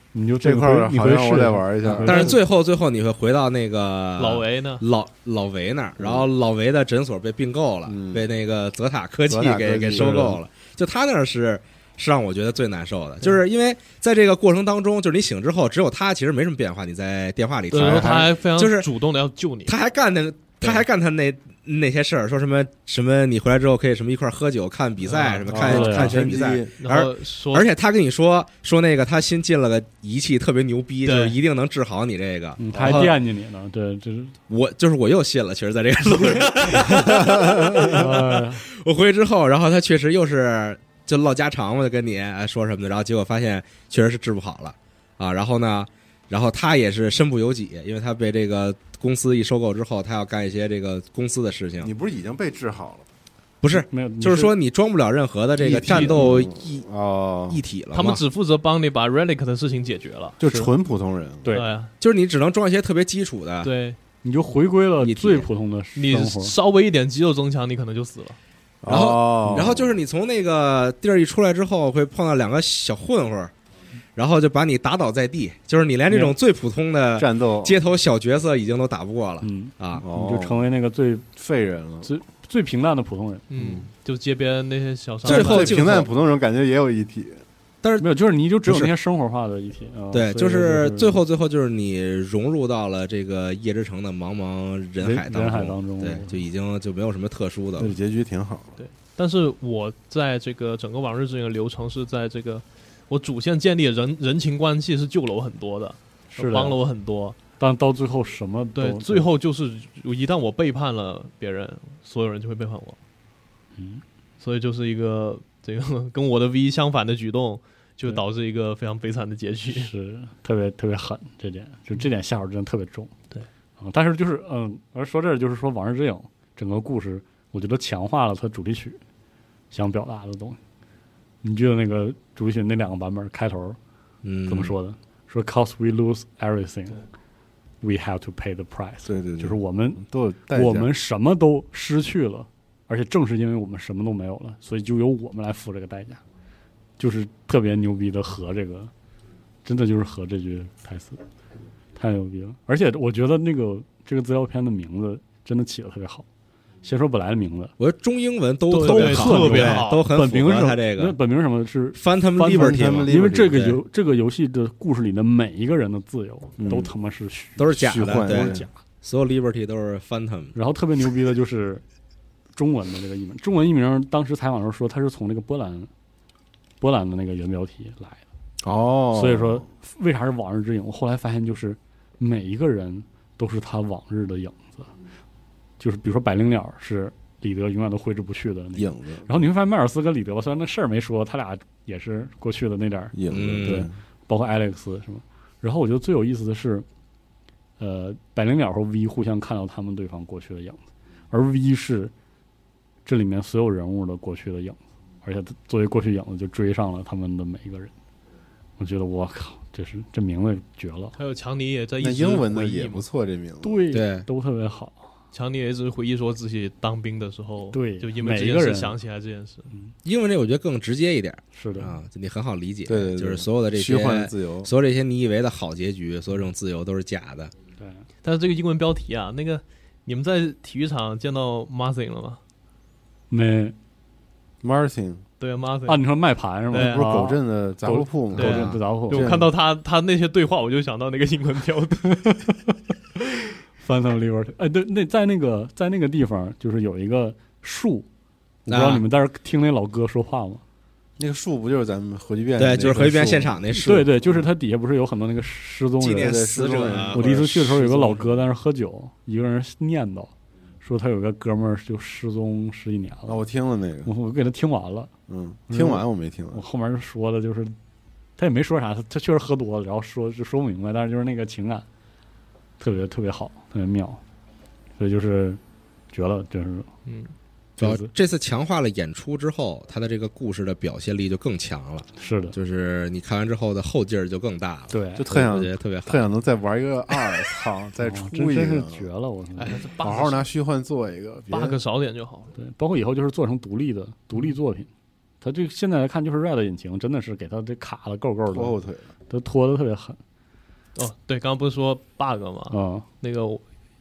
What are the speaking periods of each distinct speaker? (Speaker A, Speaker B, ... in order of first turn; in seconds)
Speaker A: 0.1-2.4, 9.9-10.3, 25.6-26.2, 32.6-34.3, 37.9-38.6, 53.7-54.5, 60.4-60.7, 64.2-66.5, 76.1-76.3, 79.4-81.3, 82.0-83.5, 88.0-91.2, 95.0-96.4, 106.3-106.8, 107.6-109.3, 113.8-114.0, 119.7-123.1, 123.8-129.0, 129.7-130.6, 131.4-133.8, 134.5-137.0, 137.8-146.2, 147.0-148.9, 149.6-151.2, 151.9-156.2, 156.8-157.7, 158.7-168.7, 170.5-171.8, 172.5-175.9, 176.8-178.2, 179.1-184.9, 185.8-196.8, 197.8-202.1, 203.0-207.9, 208.8-211.1, 213.6-215.0, 217.7-218.9, 221.5-222.0, 227.8-228.0, 233.3-233.7, 235.9-239.3, 242.2-242.5, 243.8-248.1, 248.7-250.6, 253.7-256.4, 257.1-260.3, 260.8-263.4, 264.0-265.1, 265.7-267.7, 268.4-271.9, 272.8-274.2, 275.0-275.6, 276.1-276.9, 277.8-278.1, 282.2-282.6, 284.9-285.2, 288.0-289.7, 292.5-294.9, 295.4-298.8, 299.3-300.2, 302.7-303.0
Speaker B: 0.4-2.4, 6.0-6.2, 7.8-8.2, 9.3-10.4, 17.7-18.3, 25.5-26.7, 37.3-37.9, 51.8-53.0, 55.6-57.6, 60.4-61.5, 68.8-70.0, 77.2-77.8, 80.0-80.6, 81.3-82.1, 83.6-83.8, 85.2-87.4, 97.8-98.8, 139.1-140.9, 162.4-163.7, 166.6-166.9, 167.8-168.7, 178.6-179.6, 188.8-189.3, 193.1-193.9, 212.0-213.8, 222.8-224.7, 234.6-235.2, 236.7-239.5, 251.2-253.7, 256.1-258.3, 263.2-264.1, 265.3-266.6, 285.2-289.0, 290.0-291.8, 298.5-299.1
Speaker C: 2.0-18.9, 19.7-33.1, 34.5-51.9, 53.6-56.8, 57.5-58.2, 62.0-63.7, 65.0-65.5, 68.9-73.5, 74.2-80.0, 85.2-86.1, 87.8-88.1, 88.7-88.9, 90.1-97.9, 134.2-134.7, 157.8-161.2, 161.9-163.8, 167.6-170.5, 193.3-193.9, 213.9-214.3, 220.0-227.5, 238.5-238.8, 248.7-249.0, 252.6-254.1, 256.0-258.2, 277.8-286.2
Speaker D: 4.2-4.8, 17.7-19.7, 25.0-25.6, 26.8-27.7, 31.0-31.4, 55.9-56.2, 57.9-60.4, 61.5-61.9, 63.6-64.0, 66.0-68.4, 83.5-85.9, 98.8-107.4, 108.8-113.0, 114.4-119.9, 158.7-160.0, 211.2-213.0, 215.3-219.7, 228.2-232.4, 235.4-236.0, 236.7-237.1, 238.4-242.3, 277.1-277.3, 289.6-290.4, 291.5-292.5, 300.9-303.6